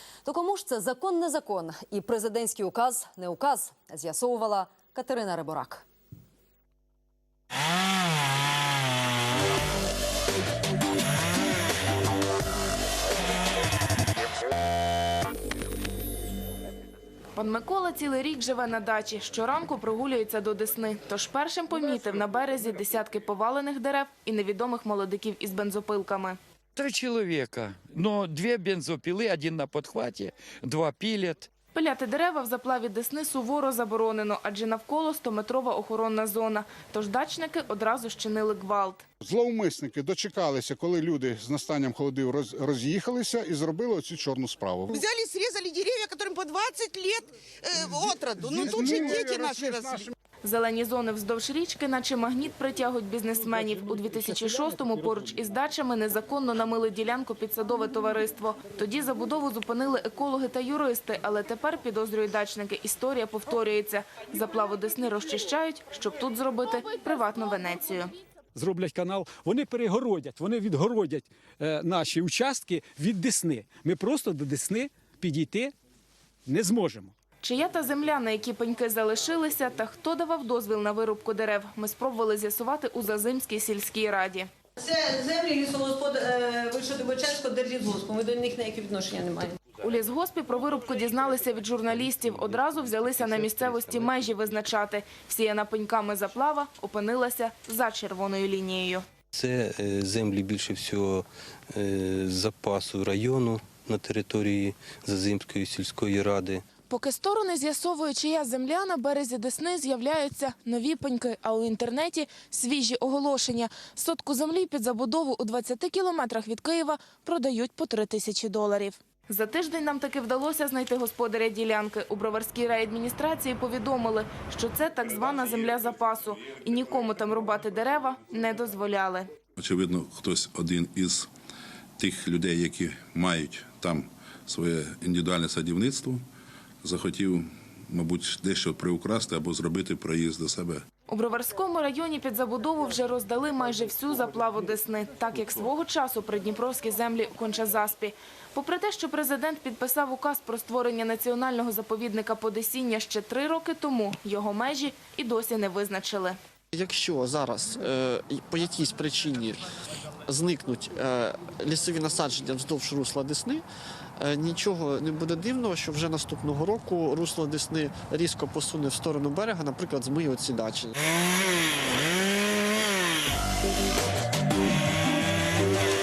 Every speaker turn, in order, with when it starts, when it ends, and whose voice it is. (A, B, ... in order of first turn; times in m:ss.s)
0:00.2-0:05.8 A
0:17.4-0:26.4 B
0:26.8-0:31.5 C
0:31.7-0:39.0 B
0:39.2-0:45.1 D
0:44.9-0:50.0 E
0:47.8-0:50.1 D
0:50.4-1:08.1 B
1:08.5-1:15.7 F
1:16.4-1:17.1 F
1:17.4-1:24.5 B
1:24.8-1:29.6 G
1:29.8-1:39.0 B
1:39.3-1:46.6 H
1:46.9-2:09.3 B
2:09.6-2:11.3 I
2:12.0-2:16.2 I
2:16.8-2:20.8 I
2:21.1-2:36.4 B
2:36.7-2:39.7 J
2:40.2-2:43.6 J
2:44.2-2:51.0 J